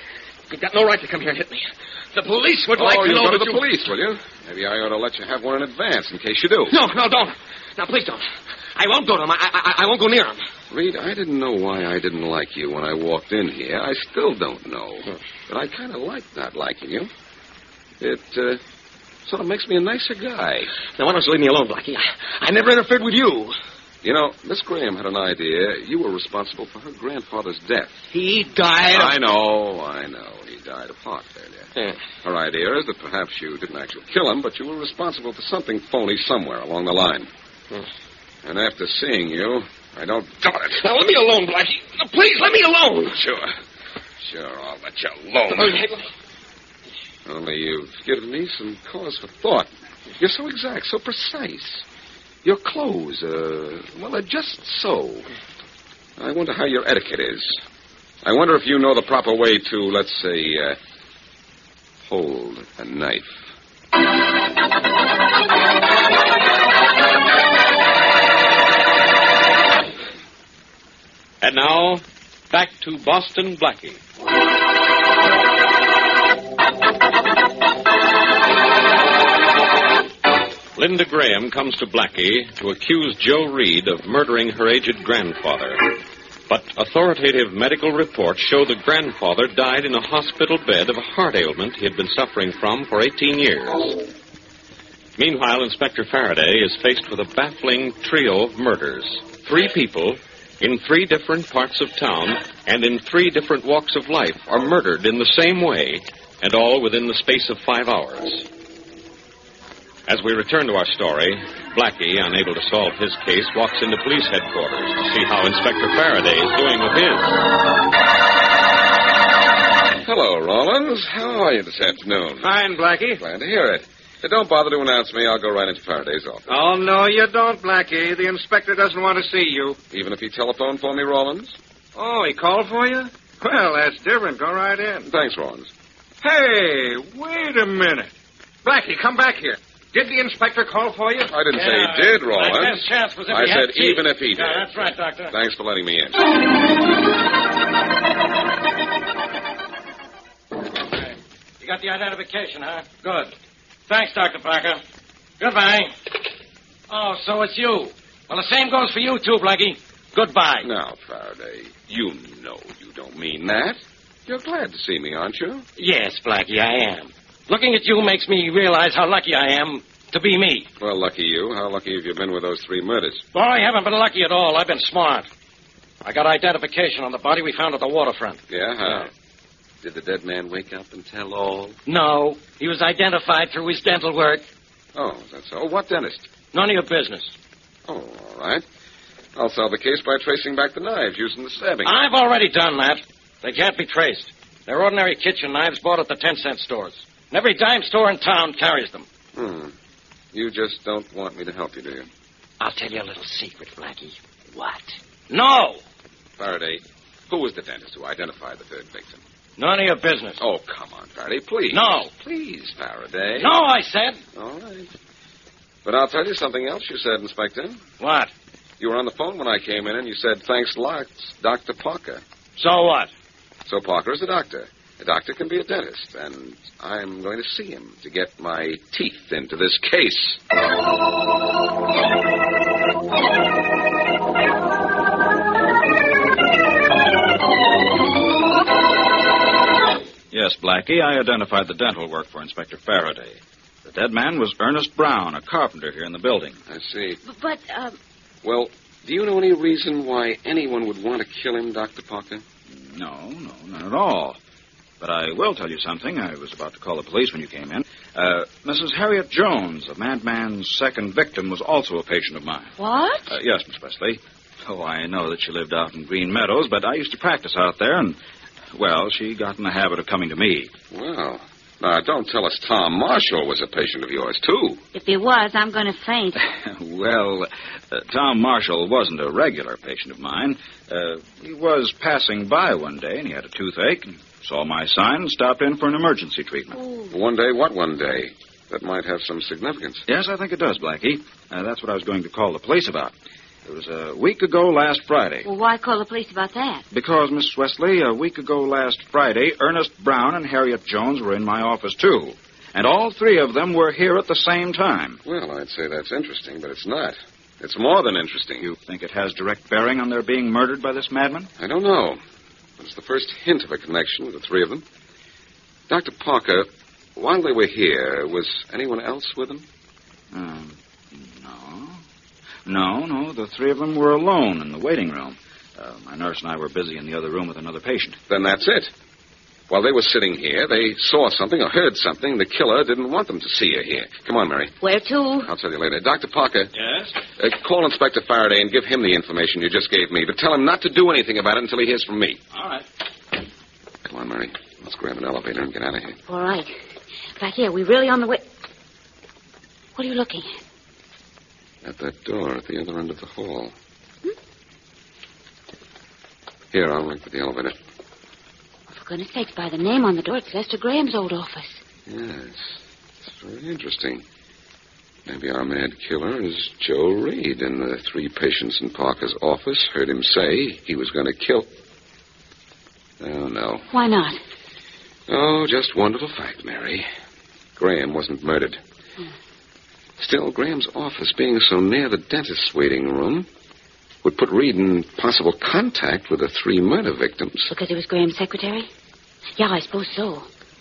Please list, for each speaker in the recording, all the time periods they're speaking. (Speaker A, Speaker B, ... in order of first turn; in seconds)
Speaker A: 0.5-3.7, 6.7-10.4, 20.9-23.6, 28.1-29.2, 40.8-43.3, 45.5-46.1
Speaker B: 2.8-6.8, 10.7-17.1, 18.0-18.6, 19.3-20.7, 24.0-28.0, 28.9-31.7, 32.2-37.3, 38.4-40.8, 43.2-43.5, 44.2-45.8, 47.2-51.9, 52.4-55.3, 56.2-57.6, 58.2-60.8, 62.0-63.4, 120.0-122.5, 123.2-126.6, 129.9-131.6, 135.1-135.7, 141.3-146.2, 160.6-165.7, 170.8-173.2, 178.5-179.1, 179.8-181.8, 184.9-186.3, 187.9-188.6, 189.3-191.9, 199.3-199.7, 200.3-202.1, 206.4-209.2, 210.4-213.5, 214.3-214.9, 215.8-217.8, 218.8-222.2, 223.7-230.4, 246.7-247.2, 248.4-252.4, 270.9-274.8, 287.1-290.0, 305.2-308.7, 311.6-312.2, 312.8-314.9, 315.9-319.7, 328.3-328.9, 329.7-334.8, 335.4-336.7, 337.3-342.4, 344.0-346.2, 351.8-353.8, 356.7-357.8, 362.1-364.2, 365.3-371.7, 373.2-373.9, 375.3-377.1, 377.8-378.8, 380.2-383.5, 384.2-387.7
Speaker C: 71.4-74.0, 80.8-86.0, 86.5-94.0, 95.2-108.5, 110.1-117.4
Speaker D: 122.4-123.2, 126.5-129.8, 132.0-135.1, 136.2-138.1, 138.6-141.3
Speaker E: 141.5-145.3, 150.9-153.3, 153.9-154.8, 155.4-155.9, 156.9-160.7, 165.8-170.7, 173.3-175.3, 176.0-178.4, 181.9-184.4, 186.5-187.3, 191.8-199.1, 205.3-205.8, 209.6-210.4, 211.7-212.1, 213.4-214.2, 218.0-218.3, 222.6-223.1
Speaker F: 240.3-246.6, 252.7-254.4, 255.0-262.7, 263.3-268.2, 268.7-270.7, 276.4-286.8, 290.1-293.1, 293.6-295.5, 296.9-305.2, 308.6-311.5, 320.3-322.0, 322.7-328.2, 336.8-337.2, 342.5-342.9
Speaker G: 247.2-248.0, 262.8-263.3, 274.9-276.4, 286.8-287.1, 295.4-296.8, 334.8-335.5, 346.3-346.7, 347.4-348.5, 350.0-350.6, 358.9-361.8, 373.9-374.4, 387.7-388.9, 389.6-390.5